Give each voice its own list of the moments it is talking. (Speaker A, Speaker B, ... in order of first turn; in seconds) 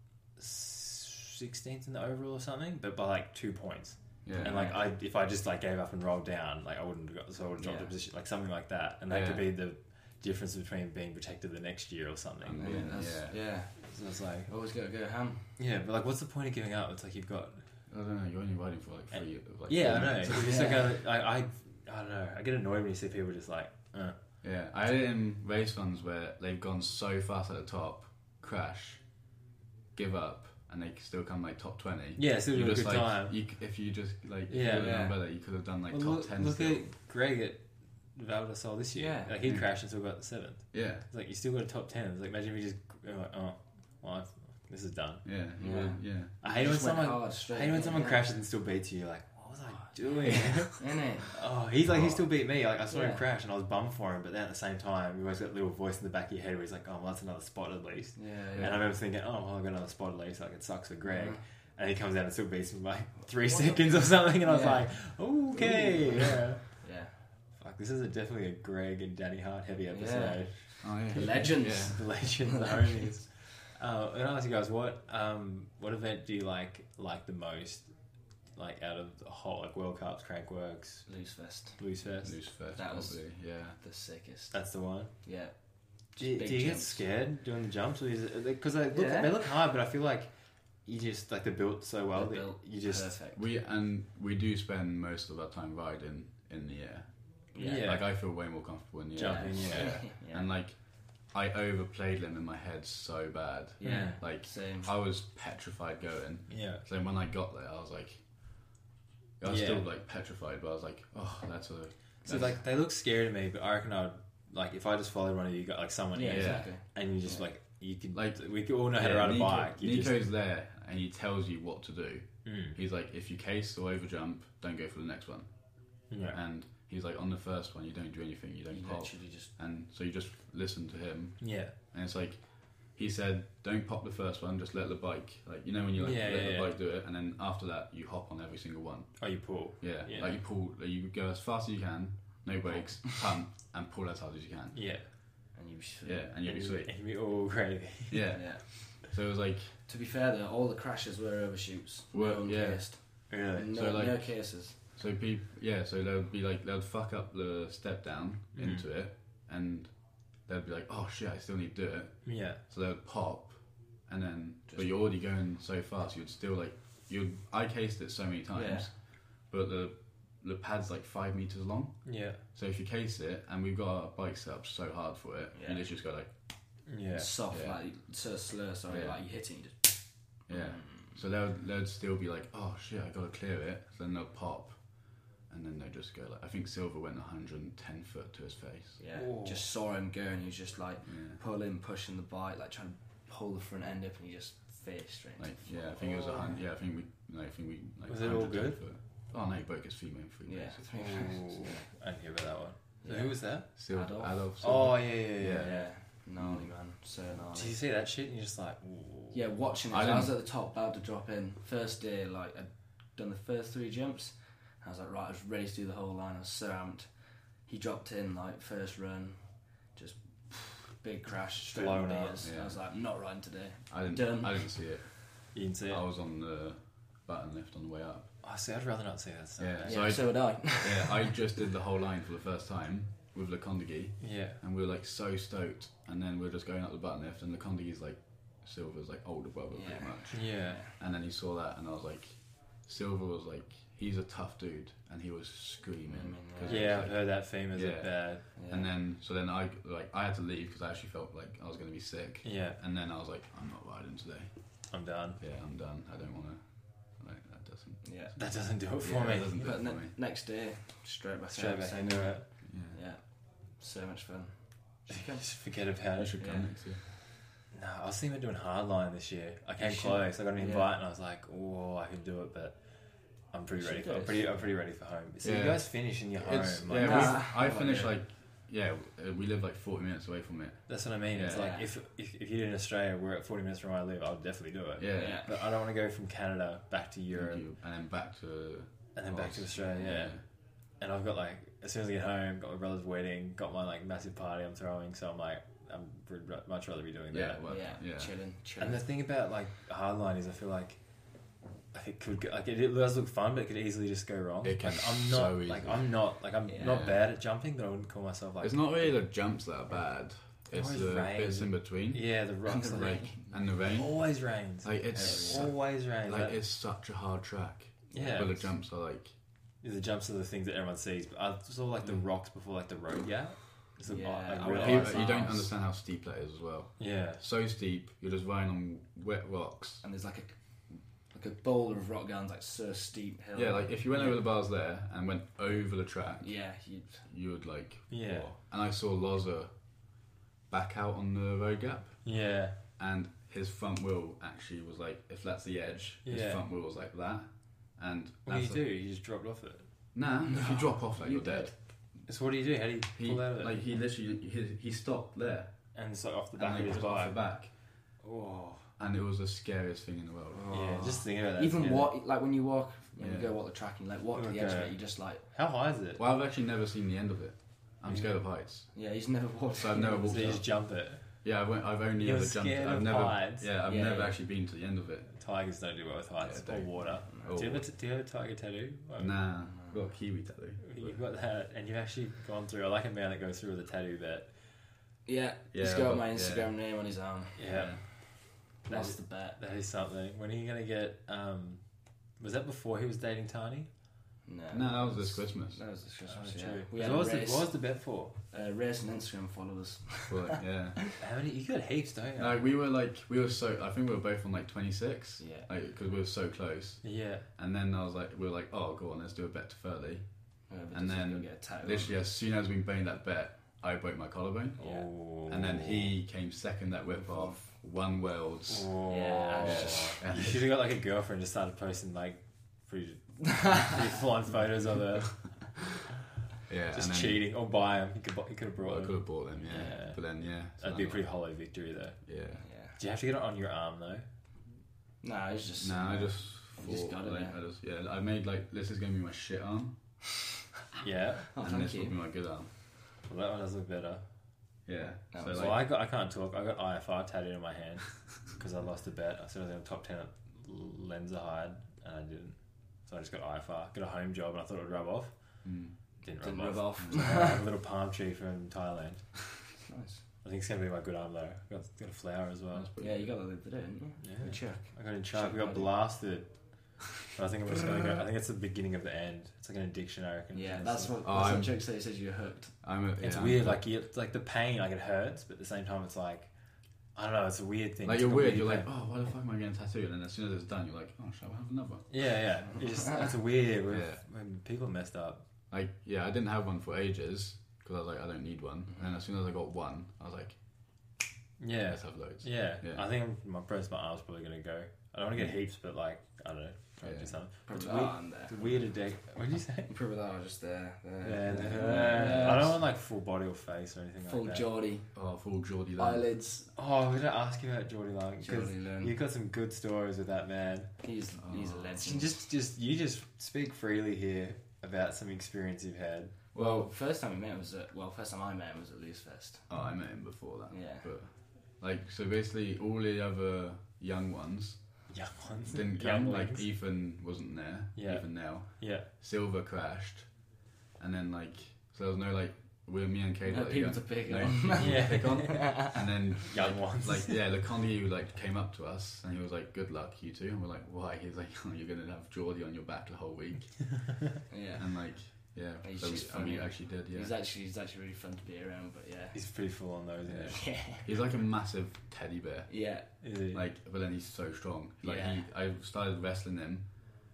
Speaker A: 0.4-13.0, 13.8-14.5, 15.6-17.6, 19.1-24.2, 32.2-33.4, 34.5-35.0, 35.9-37.6, 38.1-45.2, 46.4-66.8, 67.6-77.9, 78.5-81.1, 81.8-82.4, 84.5-85.1, 86.2-90.3, 90.8-93.1, 97.6-98.1, 99.1-100.1, 103.8-104.2, 106.5-106.8, 109.5-109.8, 112.2-120.2, 122.5-122.8, 126.1-126.4, 131.4-131.7, 136.0-136.7, 139.2-140.4, 144.7-145.1, 146.4-148.3, 153.3-153.7, 158.6-158.9, 162.2-162.6, 172.1-172.4, 176.9-177.3, 189.2-189.7, 198.1-198.8, 200.9-203.7, 204.6-205.9, 207.5-209.4, 221.7-222.5, 225.5-226.0, 228.4-230.1, 234.2-234.6, 240.3-240.8, 246.7-248.4, 252.4-252.8, 254.9-255.4, 258.4-259.7, 261.5-262.5, 265.4-266.5, 267.7-272.8, 273.5-277.4, 280.9-287.6, 289.1-290.4, 291.0-297.6, 298.8-301.0, 301.9-309.1, 310.7-313.3, 313.8-316.6, 318.1-318.7, 319.8-325.5, 327.0-327.4, 338.1-338.5, 342.2-342.8, 346.2-346.6, 348.5-349.9, 352.3-353.8, 355.9-357.4, 358.2-358.9, 360.7-362.1, 364.4-366.2, 368.1-368.3, 370.2-371.3, 372.2-373.7, 375.3-379.4, 380.9-384.5, 387.6-388.1, 388.8-391.8, 392.4-393.9, 396.3-398.4, 401.2-402.6, 407.0-407.5, 414.8-416.1, 418.7-425.6, 426.9-430.2, 430.8-432.2, 433.0-434.3, 441.0-441.4, 443.2-444.2, 445.5-455.3, 456.2-459.4, 460.4-462.9, 464.2-471.1, 473.2-476.5, 477.1-478.9, 482.1-485.4, 491.6-499.9, 501.2-504.6, 506.8-510.9, 512.0-516.4, 525.1-526.6, 528.0-529.1, 534.8-535.7, 536.5-537.4, 549.3-550.7, 553.2-553.6
Speaker B: 4.2-4.6, 9.1-9.5, 12.4-13.4, 17.9-20.5, 24.4-29.0, 29.9-36.9, 39.4-39.7, 40.7-41.1, 45.2-46.3, 70.8-72.0, 82.2-83.8, 93.3-97.1, 97.8-108.2, 109.4-112.5, 116.3-116.7, 118.1-125.5, 126.1-139.2, 139.8-144.9, 146.0-146.9, 148.1-149.8, 152.1-159.9, 160.5-176.3, 177.5-177.8, 178.9-179.2, 180.5-184.8, 185.5-189.0, 191.1-191.4, 195.4-200.8, 203.8-206.7, 209.9-210.4, 222.4-222.8, 223.9-228.3, 229.6-254.5, 255.4-258.1, 259.0-260.1, 262.6-263.0, 266.2-267.0, 275.4-280.9, 285.0-285.4, 287.3-290.4, 297.3-298.3, 304.6-306.1, 306.8-307.2, 308.6-312.3, 312.9-314.2, 314.8-319.3, 324.7-330.0, 333.6-336.6, 337.2-339.7, 340.7-342.2, 343.0-348.8, 350.1-351.7, 353.1-355.7, 356.6-357.7, 359.0-360.7, 363.2-363.5, 366.2-368.9, 369.8-370.8, 371.4-375.3, 376.4-377.9, 379.2-381.2, 385.7-386.7, 394.7-395.8, 400.3-401.0, 402.4-410.2, 410.9-414.8, 415.4-418.9, 419.6-420.6, 426.7-427.4, 428.8-431.2, 432.3-432.6, 435.8-439.9, 441.6-442.7, 444.9-445.8, 455.6-455.9, 457.0-457.2, 462.7-463.3, 471.2-471.8, 472.8-473.9, 478.0-482.1, 483.9-484.2, 485.7-490.6, 491.9-493.1, 497.0-497.4, 501.6-502.6, 505.1-506.3, 511.4-512.0, 516.5-516.9, 519.7-524.8, 525.7-530.3, 531.0-544.1, 544.8-547.3, 550.3-556.9
Speaker C: 4.3-4.9, 7.6-7.9, 12.6-13.9, 14.5-15.5, 20.2-20.9, 34.8-35.2, 39.0-39.4, 45.6-48.4, 50.2-51.4, 52.9-53.2, 58.2-58.8, 61.1-61.4, 63.4-64.8, 65.6-67.2, 69.9-73.1, 81.1-81.8, 82.7-84.6, 85.2-85.5, 86.1-87.0, 88.9-89.4, 92.1-93.4, 97.5-97.9, 99.2-100.5, 103.8-104.9, 116.1-117.5, 128.7-129.5, 145.5-146.3, 148.3-148.7, 149.9-154.8, 164.7-165.0, 168.5-168.9, 175.5-175.8, 177.1-181.2, 189.0-196.6, 200.4-201.9, 203.0-204.4, 205.5-207.8, 209.3-217.1, 217.6-224.7, 229.8-231.3, 239.7-240.9, 246.1-247.1, 248.6-248.9, 258.0-258.4, 259.5-265.5, 266.4-266.7, 269.8-270.9, 273.8-274.6, 277.0-278.1, 281.4-281.9, 285.1-285.5, 297.7-299.0, 306.7-307.0, 312.7-313.4, 315.1-315.7, 324.1-325.7, 330.0-330.6, 331.3-334.3, 336.4-337.2, 350.5-351.7, 360.5-365.4, 368.9-370.4, 373.8-374.4, 377.3-377.6, 379.6-380.0, 385.3-388.1, 388.6-389.6, 394.4-397.7, 398.5-401.2, 405.4-405.7, 410.7-412.2, 414.8-415.1, 417.1-417.6, 419.1-420.2, 423.5-423.9, 432.5-433.0, 435.2-437.6, 441.5-442.2, 445.3-445.8, 456.4-457.6, 459.8-460.2, 463.0-465.9, 470.5-472.7, 488.9-489.2, 497.7-498.7, 499.9-502.8, 504.3-505.1, 506.0-506.7, 508.4-509.1, 511.0-512.4, 516.5-519.7, 520.7-521.1, 533.5-536.1, 544.5-544.9, 545.8-549.4, 550.4-551.1, 552.7-553.1, 555.0-555.4